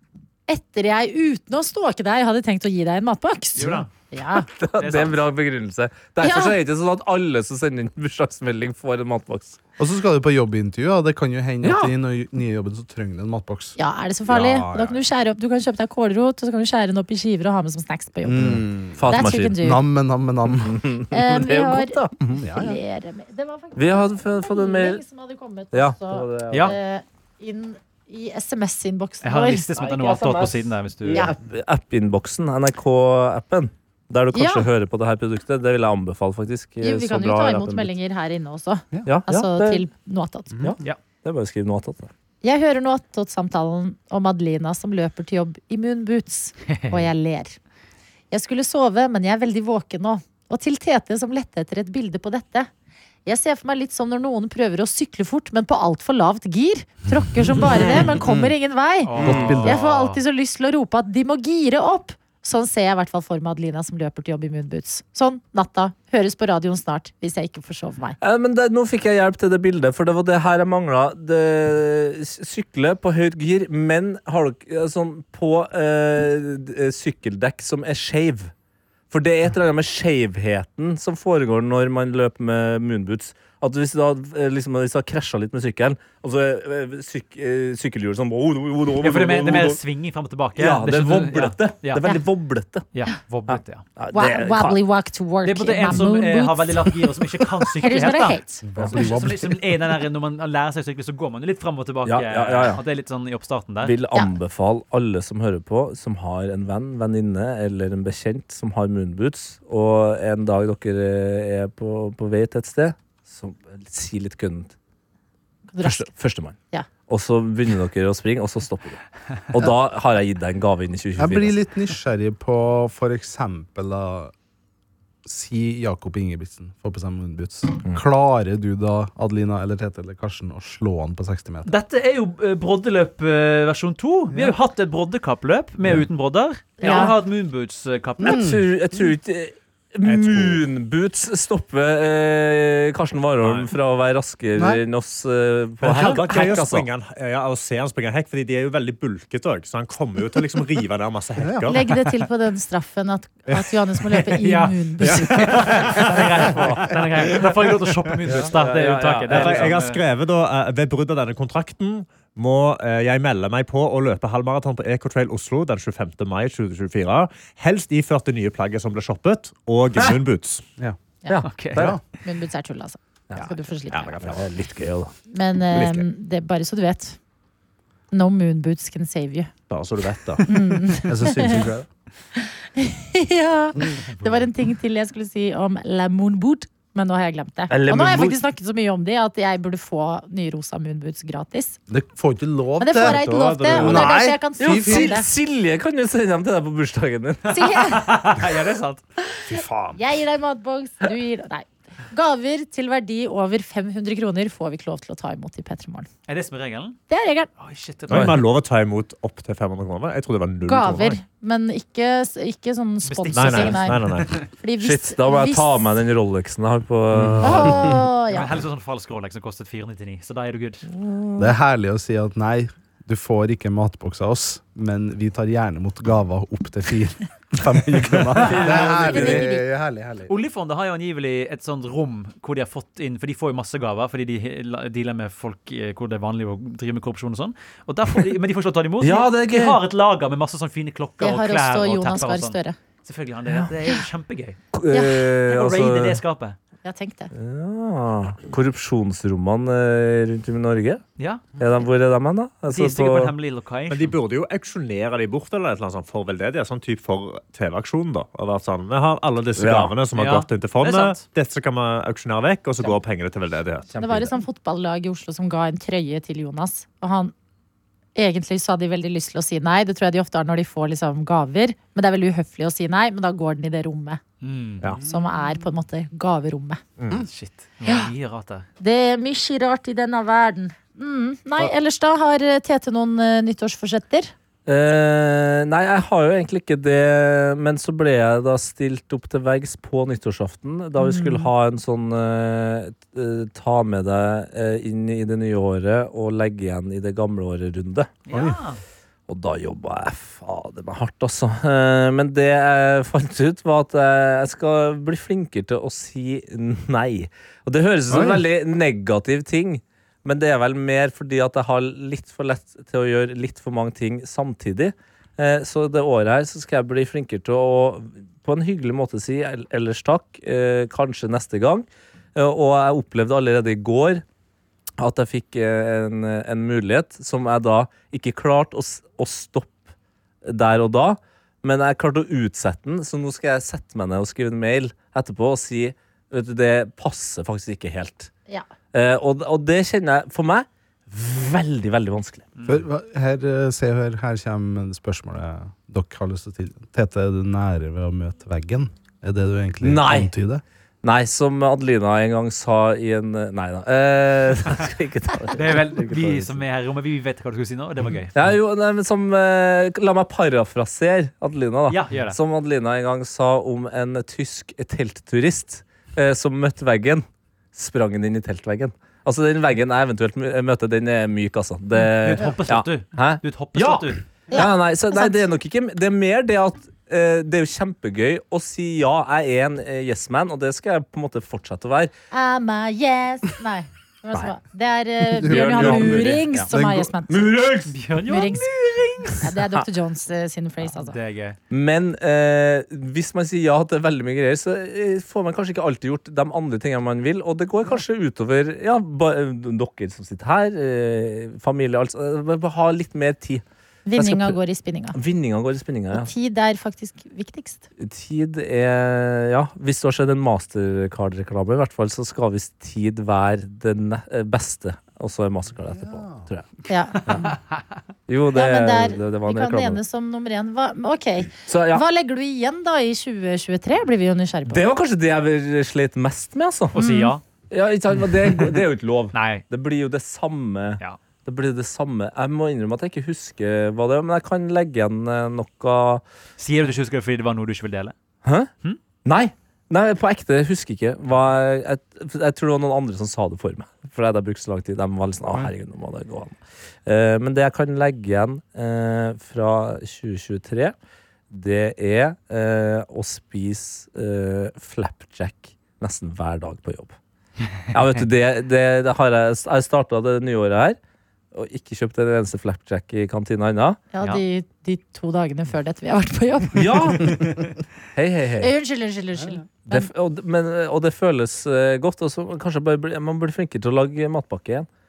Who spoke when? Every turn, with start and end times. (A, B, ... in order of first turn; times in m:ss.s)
0:00.5-0:04.5 A
0:03.6-0:03.9 B
0:04.5-0:09.6 C
0:04.8-0:05.2 B
0:06.2-0:06.6 A
0:09.8-0:13.8 D
0:11.6-0:11.9 C
0:13.8-0:19.8 A
0:14.3-0:15.0 D
0:18.2-0:19.0 D
0:18.4-0:19.6 C
0:19.6-0:20.9 D
0:20.6-0:22.1 C
0:21.1-0:22.0 A
0:22.2-0:22.8 D
0:22.5-0:29.7 A
0:23.8-0:25.0 C
0:25.7-0:26.8 C
0:26.5-0:26.8 B
0:29.2-0:31.3 B
0:29.8-0:37.9 C
0:31.1-0:31.4 A
0:34.3-0:34.7 A
0:36.8-0:40.6 A
0:39.1-0:39.8 C
0:40.6-0:42.1 C
0:42.4-0:47.6 A
0:48.3-0:52.7 A
0:53.3-1:08.2 A
0:58.0-0:58.5 D
0:59.0-1:00.2 B
0:59.2-0:59.8 D
0:59.2-0:59.7 C
1:08.2-1:18.5 C
1:19.1-1:29.8 C
1:29.0-1:32.2 B
1:30.6-1:32.9 C
1:32.9-1:33.8 B
1:33.5-1:34.8 C
1:34.1-1:36.9 A
1:35.4-1:44.0 B
1:37.8-1:39.1 A
1:38.6-1:39.8 D
1:42.0-1:42.8 C
1:43.8-1:54.8 C
1:55.7-1:56.1 A
1:55.8-2:01.6 C
2:01.2-2:04.3 D
2:05.2-2:11.7 D
2:11.7-2:18.5 B
2:16.8-2:17.2 C
2:16.8-2:17.1 A
2:18.2-2:18.6 D
2:18.2-2:26.9 C
2:20.0-2:20.6 E
2:24.6-2:24.8 D
2:25.8-2:31.8 E
2:31.4-2:31.7 D
2:31.7-2:35.8 A
2:34.3-2:40.0 B
2:35.0-2:36.5 E
2:38.4-2:39.7 C
2:39.3-2:50.6 E
2:51.3-2:51.9 C
2:51.4-2:52.0 B
2:51.7-2:52.0 D
2:52.1-2:54.2 A
2:53.9-2:54.5 E
2:54.2-2:55.1 C
2:55.3-2:57.2 A
2:55.7-2:56.0 E
2:58.1-2:59.5 A
2:59.7-3:00.6 E
3:00.4-3:01.7 A
3:01.0-3:01.9 D
3:02.4-3:11.8 A
3:07.7-3:08.4 C
3:11.9-3:15.2 D
3:12.8-3:15.3 A
3:13.0-3:14.2 E
3:14.6-3:17.6 C
3:17.5-3:19.0 B
3:17.5-3:18.1 A
3:19.5-3:26.1 A
3:19.6-3:19.8 E
3:26.3-3:27.0 B
3:27.1-3:27.5 A
3:27.6-3:28.5 B
3:28.1-3:31.2 E
3:30.6-3:35.8 A
3:33.0-3:34.5 B
3:33.3-3:34.3 E
3:34.8-3:37.9 C
3:37.1-3:37.9 D
3:37.4-3:38.6 A
3:38.3-3:40.9 B
3:41.1-3:41.5 C
3:41.4-3:50.3 D
3:48.5-3:49.4 C
3:48.6-3:49.6 A
3:50.3-4:04.6 B
3:59.0-3:59.8 C
4:01.2-4:02.8 A
4:04.7-4:06.2 C
4:04.9-4:05.2 A
4:05.5-4:06.6 B
4:06.8-4:07.3 A
4:07.3-4:11.0 C
4:11.2-4:11.5 B
4:11.6-4:13.4 C
4:12.7-4:14.2 B
4:13.9-4:23.9 E
4:19.6-4:19.9 C
4:20.1-4:21.2 B
4:23.9-4:24.3 C
4:24.0-4:27.3 A
4:28.2-4:34.2 A
4:34.4-4:34.8 B
4:35.0-4:35.3 D
4:35.1-4:36.8 A
4:37.0-4:37.2 E
4:37.2-4:38.7 B
4:37.8-4:38.1 A
4:38.8-4:44.3 A
4:44.7-4:58.1 C
4:51.0-4:51.5 A
4:58.3-4:58.8 B
4:58.3-4:58.6 D
4:59.3-5:24.2 C
5:08.1-5:08.4 D
5:25.0-5:29.8 C
5:30.4-5:38.3 C
5:38.9-5:42.5 C
5:42.6-5:42.8 B
5:42.7-5:50.6 D
5:49.8-5:50.3 C
5:51.0-5:56.6 C
5:55.5-5:58.3 B
5:58.4-6:22.1 C
6:01.9-6:02.4 B
6:12.0-6:14.2 B
6:14.5-6:15.4 A
6:22.3-6:27.4 A
6:25.4-6:26.7 C
6:25.4-6:27.1 D
6:27.3-6:27.9 C
6:27.9-6:29.5 B
6:28.3-6:28.7 A
6:29.4-6:31.2 A
6:30.8-6:31.6 B
6:31.7-6:43.6 C
6:44.1-6:45.2 A
6:44.2-6:44.6 C
6:45.1-6:46.3 C
6:46.1-6:47.8 A
6:48.0-6:56.7 C
6:55.9-6:56.4 D
6:56.9-6:57.1 A
6:57.2-6:57.8 B
6:58.3-7:00.0 C
6:58.5-7:04.8 A
7:01.7-7:02.0 C
7:04.7-7:07.0 C
7:06.9-7:07.4 B
7:07.0-7:07.4 A
7:07.7-7:16.2 C
7:09.3-7:09.6 B
7:16.6-7:18.1 B
7:18.4-7:18.7 C
7:19.2-7:31.0 C
7:31.5-7:37.2 C
7:37.9-7:41.0 C
7:41.5-7:44.4 C
7:44.1-7:47.6 A
7:46.8-7:47.5 C
7:48.2-7:48.7 C
7:48.6-7:50.1 A
7:49.9-7:54.9 C